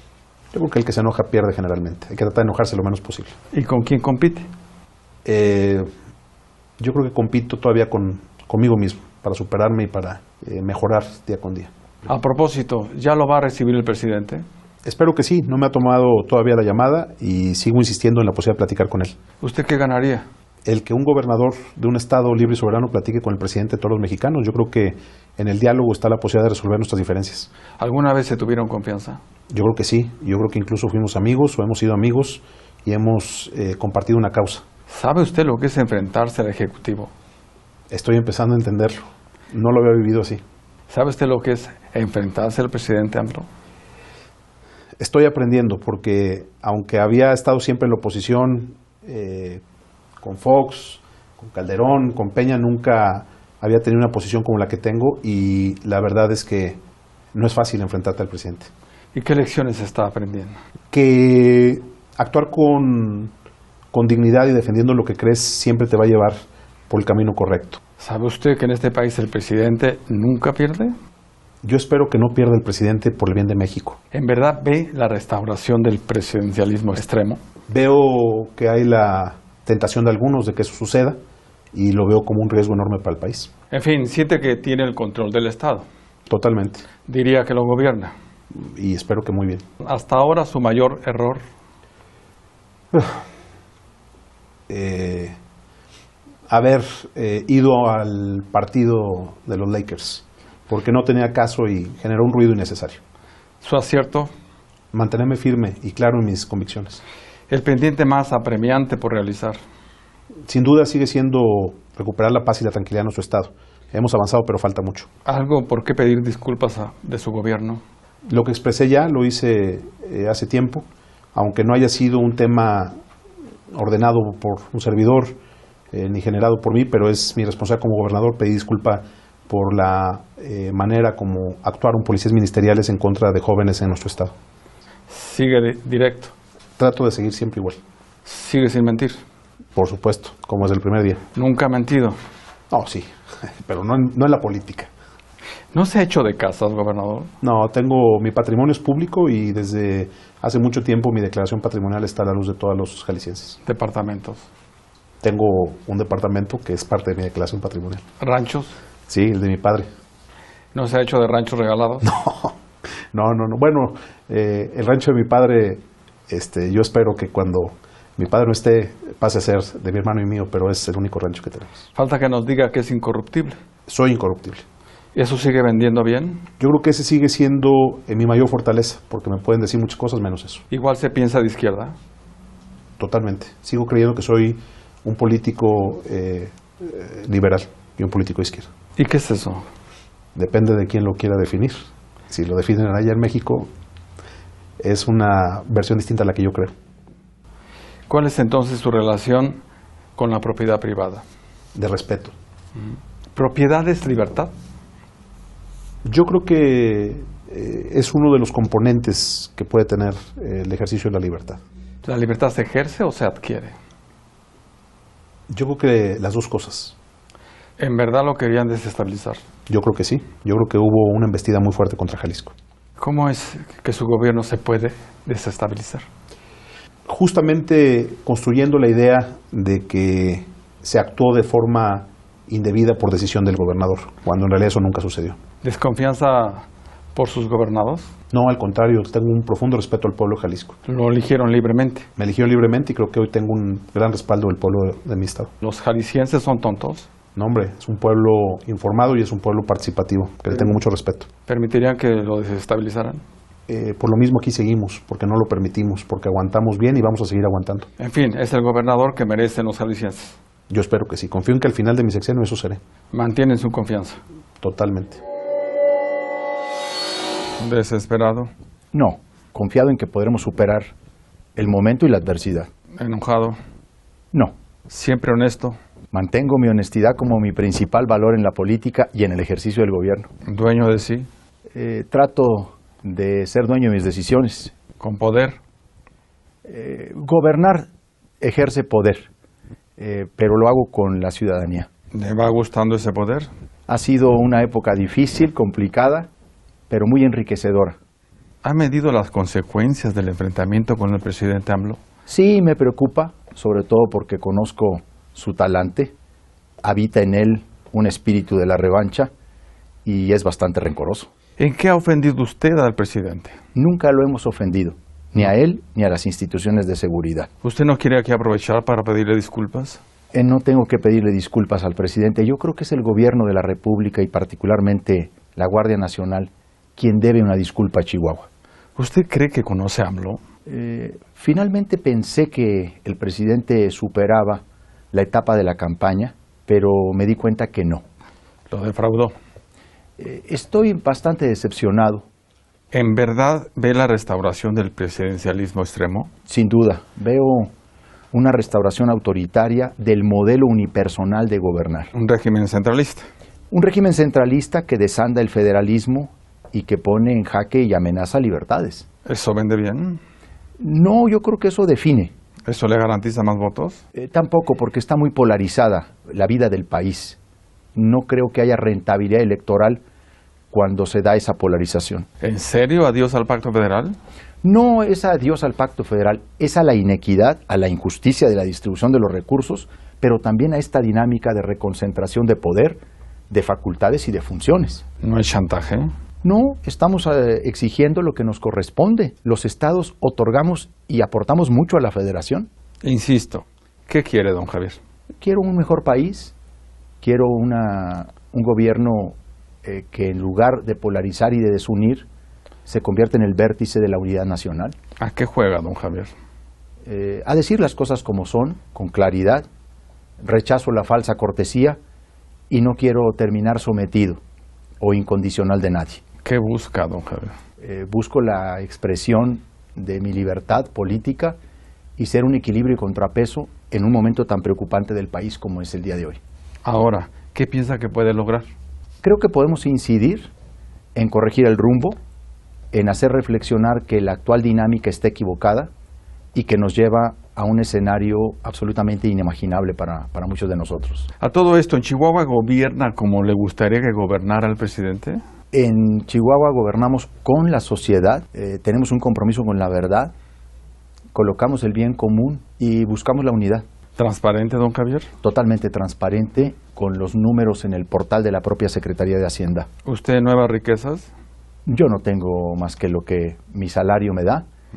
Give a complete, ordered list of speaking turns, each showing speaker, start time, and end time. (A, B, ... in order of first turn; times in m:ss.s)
0:00.5-0:03.3 A
0:03.5-0:04.5 B
0:05.2-0:05.9 A
0:06.8-0:11.7 A
0:12.1-0:14.4 B
0:14.8-0:19.1 A
0:19.4-0:20.2 B
0:20.6-0:27.5 A
0:27.8-0:29.2 B
0:29.5-0:34.6 A
0:34.9-0:37.1 B
0:37.9-0:40.4 A
0:40.9-0:43.5 B
0:45.0-0:49.6 A
0:50.2-0:56.8 A
0:57.3-0:58.7 A
0:59.1-1:00.6 B
1:00.9-1:03.3 A
1:03.9-1:07.8 A
1:08.0-1:10.9 B
1:11.6-1:14.0 A
1:14.1-1:17.4 B
1:17.7-1:21.2 A
1:21.7-1:23.5 A
1:23.7-1:25.8 B
1:26.3-1:26.8 A
1:27.0-1:28.1 B
1:28.5-1:29.6 A
1:29.8-1:31.4 B
1:34.7-1:35.4 A
1:36.5-1:43.0 A
1:43.6-1:44.3 B
1:44.9-1:47.0 A
1:47.5-1:49.6 B
1:50.5-1:55.1 A
1:55.2-1:57.8 B
1:58.3-2:02.9 A
2:03.7-2:05.4 A
2:05.9-2:14.3 A
2:15.1-2:16.3 B
2:16.8-2:17.8 A
2:18.2-2:19.2 B
2:19.8-2:21.2 A
2:21.3-2:22.2 B
2:22.7-2:24.9 A
2:25.7-2:27.3 B
2:27.4-2:33.6 A
2:33.6-2:34.4 B
2:35.2-2:38.0 A
2:38.2-2:38.8 B
2:39.1-2:39.9 A
2:40.7-2:42.1 B
2:42.0-2:42.6 A
2:43.1-2:51.8 A
2:51.9-2:53.6 B
2:53.9-2:54.6 A
2:55.1-2:56.4 B
2:56.6-3:00.6 A
3:00.7-3:01.9 B
3:03.0-3:08.7 A
3:09.0-3:09.6 B
3:10.3-3:11.8 A
3:12.3-3:13.7 A
3:14.8-3:16.7 A
3:18.1-3:19.6 B
3:20.2-3:21.2 B
3:21.7-3:22.3 A
3:23.3-3:24.5 B
3:26.0-3:31.6 A
3:32.0-3:33.7 B
3:35.5-3:37.0 A
3:37.8-3:39.4 B
3:39.7-3:42.5 A
3:43.0-3:46.0 B
3:47.0-3:55.4 A
3:55.6-3:58.1 B
3:58.3-4:00.8 A
4:00.8-4:02.0 B
4:02.2-4:05.5 A
4:05.6-4:07.1 B
4:07.3-4:11.3 A
4:11.4-4:13.2 B
4:13.7-4:17.9 A
4:18.0-4:20.4 B
4:20.7-4:22.8 A
4:23.1-4:24.2 B
4:24.6-4:25.2 A
4:27.6-4:28.5 B
4:28.9-4:30.9 C
4:31.6-4:32.7 C
4:32.9-4:33.6 B
4:34.9-4:35.8 B
4:36.1-4:40.3 C
4:40.4-4:41.3 B
4:41.7-4:44.7 C
4:45.0-4:45.6 B
4:46.6-4:47.9 C
4:48.4-4:49.3 C
4:50.0-4:51.9 C
4:52.1-4:53.5 B
4:53.9-4:56.3 C
4:56.9-4:58.0 C
4:58.6-5:02.0 B
5:02.3-5:06.1 C
5:06.8-5:09.3 C
5:10.0-5:11.3 C
5:11.6-5:13.5 B
5:13.7-5:17.5 C
5:17.6-5:20.0 B
5:20.3-5:28.5 C
5:29.0-5:30.4 B
5:30.7-5:38.0 C
5:38.7-5:39.3 B
5:40.2-5:42.2 C
5:42.9-5:46.3 B
5:46.5-5:47.7 C
5:48.3-5:52.1 C
5:52.1-5:53.2 B
5:53.7-5:59.0 C
5:59.2-6:00.2 B
6:00.8-6:02.3 C
6:02.6-6:04.0 B
6:04.1-6:07.4 C
6:07.9-6:10.0 C
6:10.7-6:12.3 C
6:12.4-6:14.2 B
6:14.6-6:25.0 C
6:25.2-6:26.1 B
6:26.4-6:32.7 C
6:33.0-6:35.0 B
6:35.4-6:36.5 C
6:37.2-6:42.3 C
6:42.8-6:45.0 C
6:45.2-6:46.3 B
6:47.0-6:49.6 C
6:50.4-6:52.0 C
6:52.7-6:54.4 C
6:55.0-6:56.2 C
6:56.4-6:57.5 B
6:57.8-7:01.6 C
7:02.2-7:06.4 C
7:06.8-7:08.7 B
7:09.2-7:10.5 C
7:11.1-7:12.2 C
7:12.9-7:15.9 C
7:16.5-7:21.3 C
7:21.4-7:25.4 B
7:25.7-7:30.3 C
7:31.3-7:33.8 C
7:34.2-7:35.3 B
7:35.4-7:39.9 C
7:40.0-7:41.3 B
7:41.8-7:44.6 C